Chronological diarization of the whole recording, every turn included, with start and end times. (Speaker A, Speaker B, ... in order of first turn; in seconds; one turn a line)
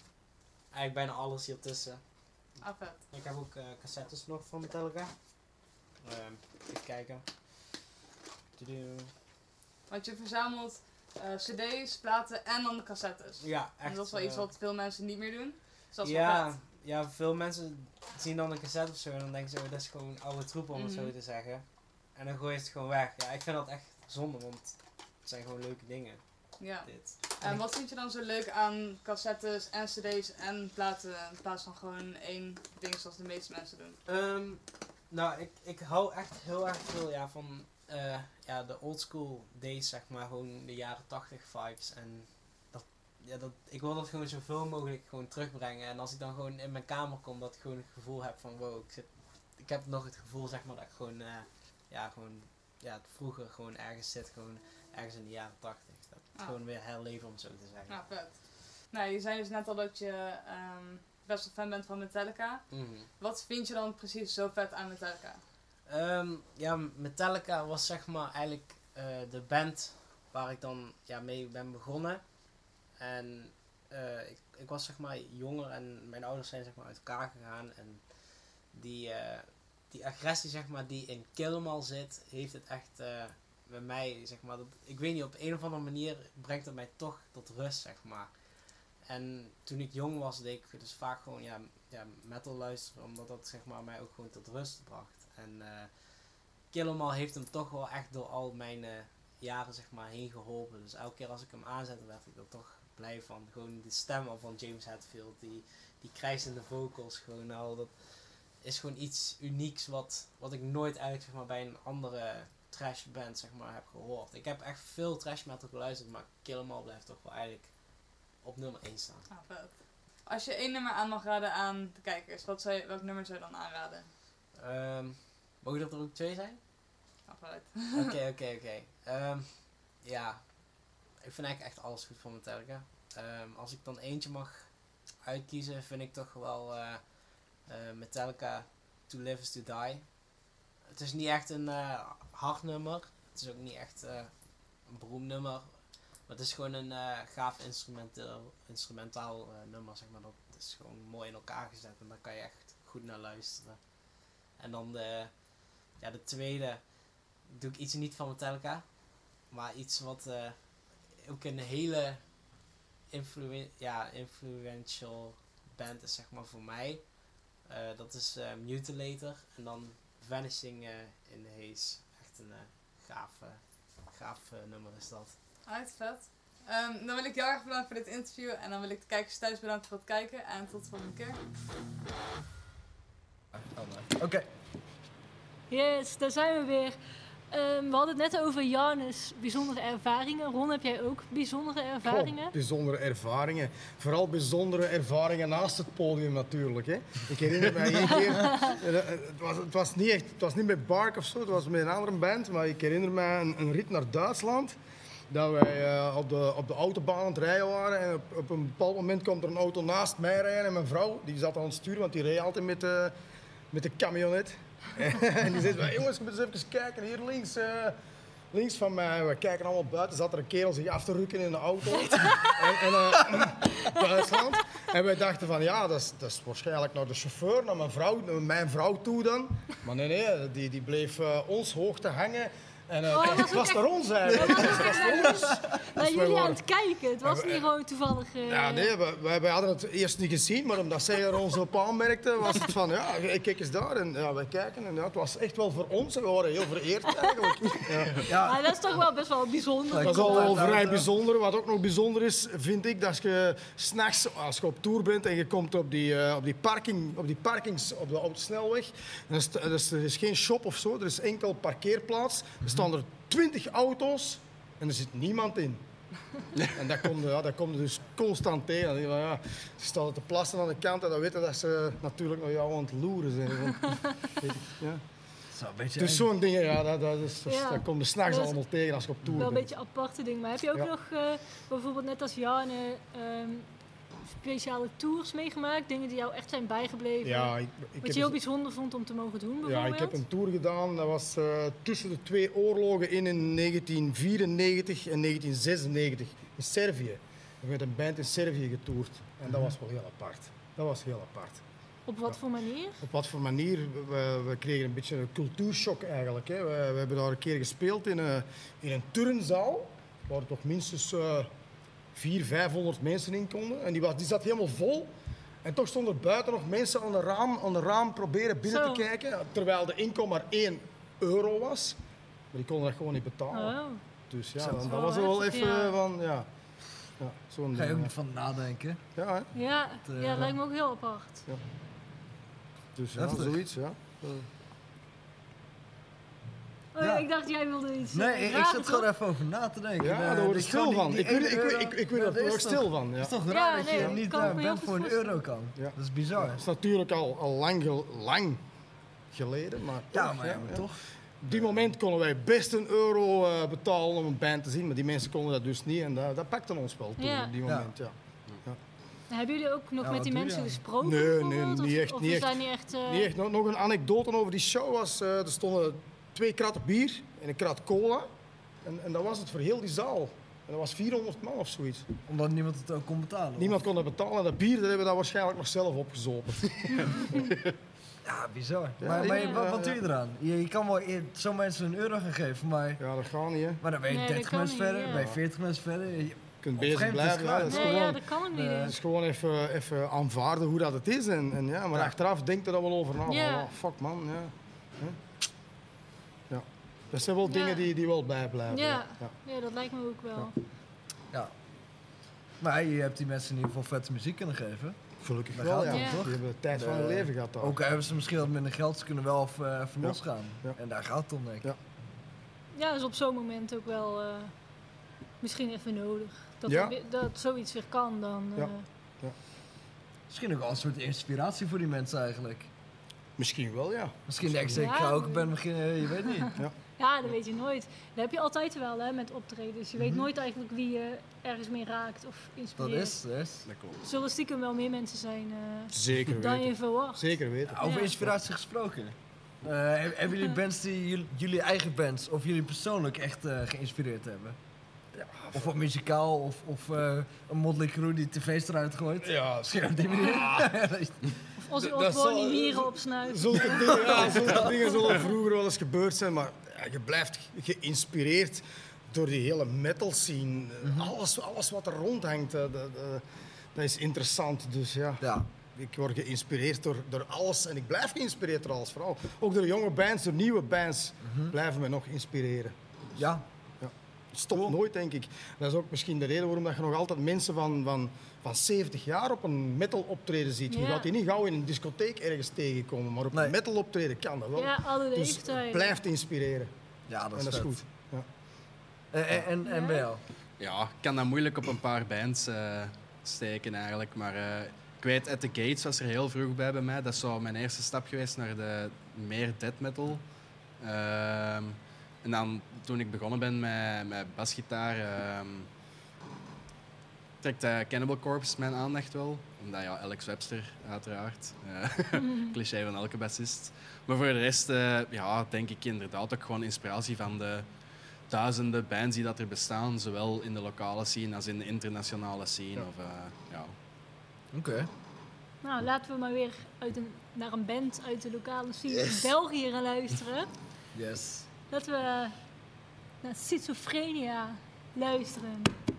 Speaker A: 0.7-2.5
Speaker B: 2.6-3.0
Speaker A: 3.1-5.2
Speaker A: 6.0-7.4
Speaker A: 8.6-9.1
Speaker B: 9.9-16.5
Speaker A: 13.4-14.5
Speaker A: 16.0-27.6
Speaker B: 20.7-21.1
Speaker B: 26.6-34.0
Speaker A: 34.1-58.0
Speaker B: 57.9-65.4
Speaker A: 62.7-63.1
Speaker A: 65.9-119.3
Speaker B: 119.3-124.1
Speaker A: 124.5-126.6
Speaker B: 127.2-128.2
Speaker A: 128.0-175.4
Speaker B: 175.7-181.4
Speaker C: 183.6-184.5
Speaker D: 185.7-192.5
Speaker E: 192.0-204.8
Speaker E: 205.3-213.1
Speaker E: 213.7-217.9
Speaker E: 218.5-236.6
Speaker D: 233.1-238.9
Speaker C: 234.3-235.6
Speaker E: 237.2-237.7
Speaker E: 238.5-248.2
Speaker D: 248.2-250.7
Speaker C: 248.3-248.7
Speaker C: 249.9-251.1
Speaker E: 250.0-265.8
Speaker E: 266.7-275.1
Speaker C: 275.5-276.3
Speaker E: 276.0-279.7
Speaker D: 277.5-278.6
Speaker D: 279.3-290.2
Speaker E: 287.2-288.4
Speaker E: 289.6-301.6
Speaker D: 302.1-303.0
Speaker E: 303.0-311.5
Speaker E: 312.1-315.1
Speaker E: 315.6-322.0
Speaker D: 318.7-319.0
Speaker E: 322.5-323.8
Speaker D: 323.5-324.0
Speaker E: 324.3-326.5
Speaker C: 324.6-324.9
Speaker D: 324.8-326.0
Speaker E: 327.2-328.1
Speaker C: 327.7-329.0
Speaker E: 329.2-329.5
Speaker D: 329.5-331.4
Speaker C: 330.1-330.6
Speaker E: 332.9-334.5
Speaker C: 333.1-333.6
Speaker D: 336.9-339.1
Speaker C: 337.0-337.3
Speaker C: 338.1-346.6
Speaker E: 340.0-343.4
Speaker D: 343.5-345.4
Speaker E: 343.9-344.6
Speaker E: 345.8-348.6
Speaker E: 349.3-358.8
Speaker C: 350.1-351.0
Speaker F: 351.5-351.8
Speaker D: 357.2-357.5
Speaker C: 357.6-357.9
Speaker D: 359.3-363.3
Speaker C: 360.0-360.8
Speaker E: 361.0-368.3
Speaker E: 368.8-372.1
Speaker C: 372.3-373.8
Speaker E: 373.6-377.4
Speaker C: 378.2-383.0
Speaker E: 379.0-380.0
Speaker D: 379.2-379.6
Speaker E: 383.0-383.8
Speaker C: 383.8-388.9
Speaker D: 384.1-385.2
Speaker E: 385.1-385.4
Speaker E: 386.6-388.2
Speaker D: 387.7-389.0
Speaker E: 388.8-395.2
Speaker D: 393.3-393.7
Speaker E: 396.5-399.4
Speaker D: 397.4-397.9
Speaker D: 398.7-400.5
Speaker C: 402.6-411.7
Speaker E: 405.2-407.8
Speaker D: 405.9-406.2
Speaker E: 410.0-410.8
Speaker D: 412.7-414.8
Speaker D: 415.4-418.9
Speaker E: 416.7-416.9
Speaker E: 418.6-419.4
Speaker C: 420.3-422.7
Speaker E: 423.4-424.9
Speaker C: 424.3-426.6
Speaker D: 424.7-425.6
Speaker D: 427.0-433.2
Speaker C: 432.8-433.7
Speaker F: 433.7-434.0
Speaker D: 434.0-438.1
Speaker E: 435.9-438.3
Speaker C: 437.7-444.6
Speaker E: 445.1-445.8
Speaker C: 445.5-451.2
Speaker E: 449.2-450.8
Speaker D: 451.6-454.7
Speaker E: 451.8-463.2
Speaker C: 453.8-454.4
Speaker C: 460.8-461.1
Speaker E: 463.8-472.8
Speaker C: 465.2-465.5
Speaker C: 471.2-471.5
Speaker C: 473.2-473.4
Speaker E: 473.8-486.7
Speaker C: 474.5-474.8
Speaker D: 480.7-481.1
Speaker D: 484.6-486.0
Speaker C: 487.1-487.8
Speaker E: 487.3-488.3
Speaker C: 489.1-490.2
Speaker D: 489.6-490.1
Speaker F: 490.6-500.2
Speaker F: 500.8-505.7
Speaker F: 507.4-517.7
Speaker D: 512.2-512.5
Speaker F: 518.3-523.7
Speaker C: 524.5-524.9
Speaker D: 525.6-530.5
Speaker C: 528.9-529.3
Speaker C: 530.9-531.5
Speaker D: 531.7-532.5
Speaker D: 533.2-535.8